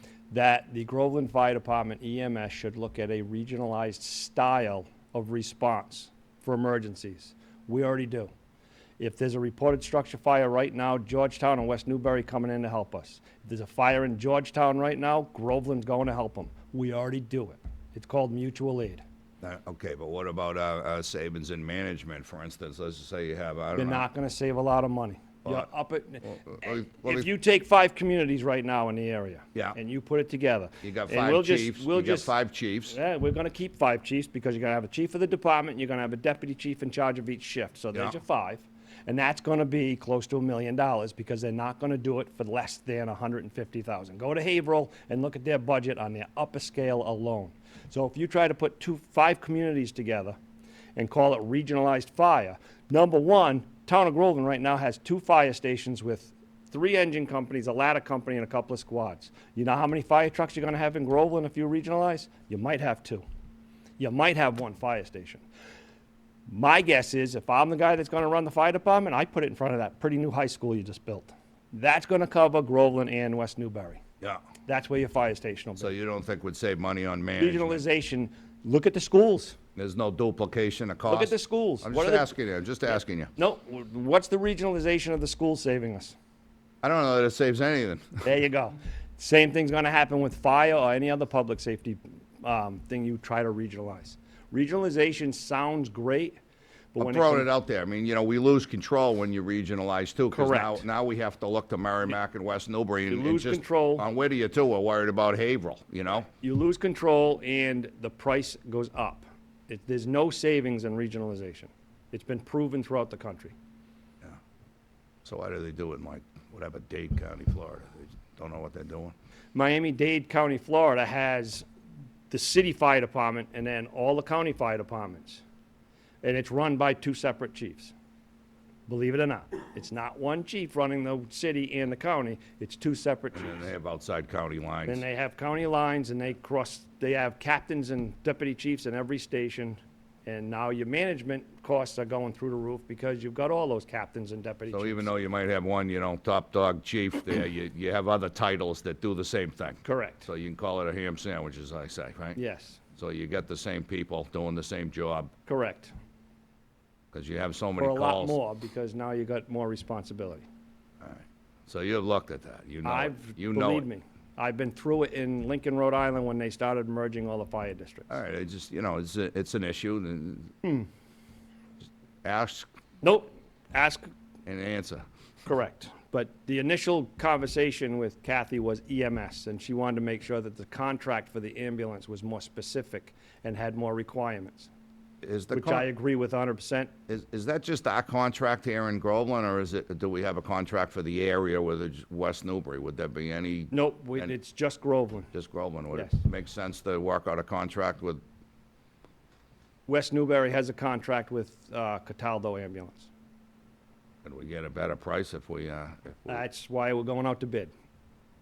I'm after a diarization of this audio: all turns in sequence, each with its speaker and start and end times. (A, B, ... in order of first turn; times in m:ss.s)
0:00.3-0:08.3 A
0:09.0-0:19.0 A
0:19.4-0:24.0 B
0:23.8-0:32.3 A
0:26.2-0:27.3 B
0:30.8-0:33.0 B
0:32.9-0:50.4 A
0:51.0-1:03.2 A
1:04.0-1:05.4 A
1:06.5-1:14.0 A
1:14.7-1:15.9 A
1:15.8-1:17.8 B
1:17.4-1:19.6 A
1:19.8-1:23.3 B
1:21.1-1:22.3 A
1:22.9-1:26.2 A
1:26.8-1:28.2 B
1:28.2-1:36.4 A
1:36.9-1:37.5 A
1:37.0-1:46.3 B
1:40.3-1:40.8 A
1:43.1-1:44.0 A
1:46.4-1:53.5 A
1:55.2-1:59.1 B
1:59.5-2:01.6 A
2:02.3-2:05.4 A
2:06.2-2:07.9 A
2:08.9-2:13.6 A
2:13.3-2:15.0 B
2:14.9-2:25.1 A
2:24.7-2:32.4 B
2:29.8-2:30.3 A
2:32.4-2:32.8 A
2:33.0-2:35.3 B
2:35.4-2:35.9 A
2:37.1-2:38.4 B
2:37.8-2:40.4 A
2:41.0-2:43.9 B
2:42.8-2:48.1 A
2:48.1-2:50.5 B
2:52.2-2:52.7 B
2:53.0-2:54.1 A
2:54.4-2:55.0 B
2:55.4-3:04.7 A
3:05.2-3:05.8 B
3:05.5-3:06.9 A
3:07.1-3:14.3 B
3:13.7-3:15.3 A
3:15.3-3:18.2 B
3:19.9-3:23.1 A
3:24.2-3:26.4 B
3:26.3-3:27.7 A